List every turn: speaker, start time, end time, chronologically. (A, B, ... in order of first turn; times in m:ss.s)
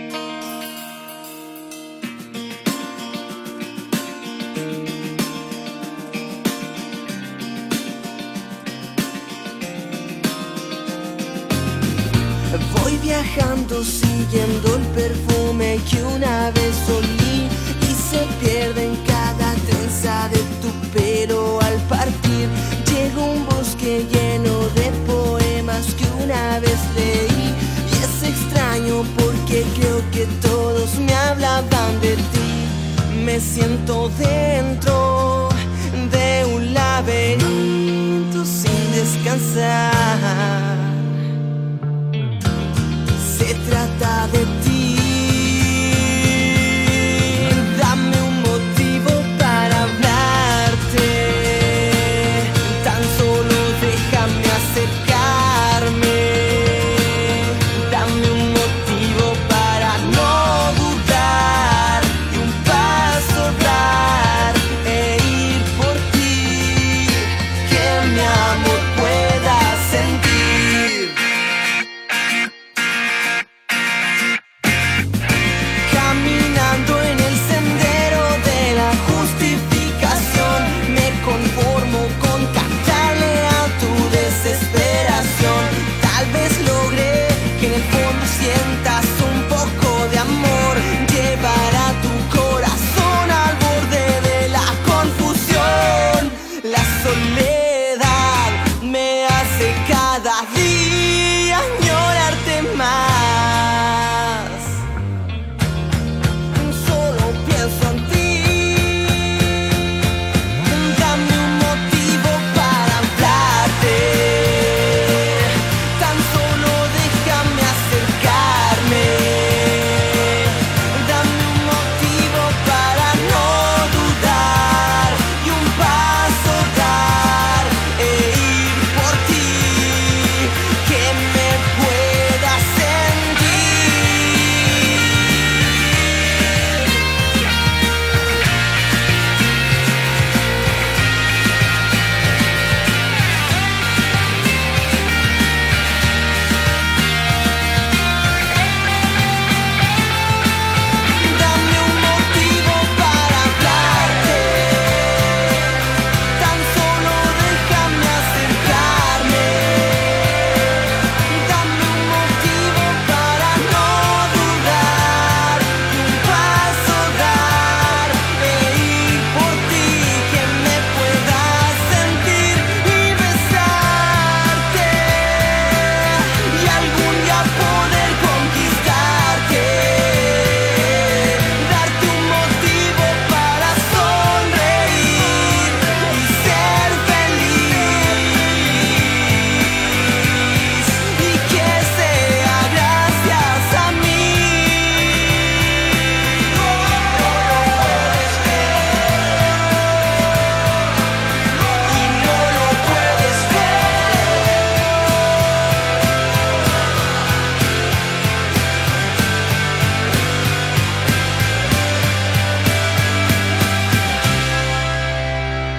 0:12.5-0:41.0 A
0:43.1-1:11.2 A
1:15.8-1:44.8 A
1:46.5-1:49.6 A
1:50.6-2:15.2 A
2:31.1-2:35.7 A
2:36.3-3:15.3 A
3:16.4-3:19.6 A
3:21.6-3:24.7 A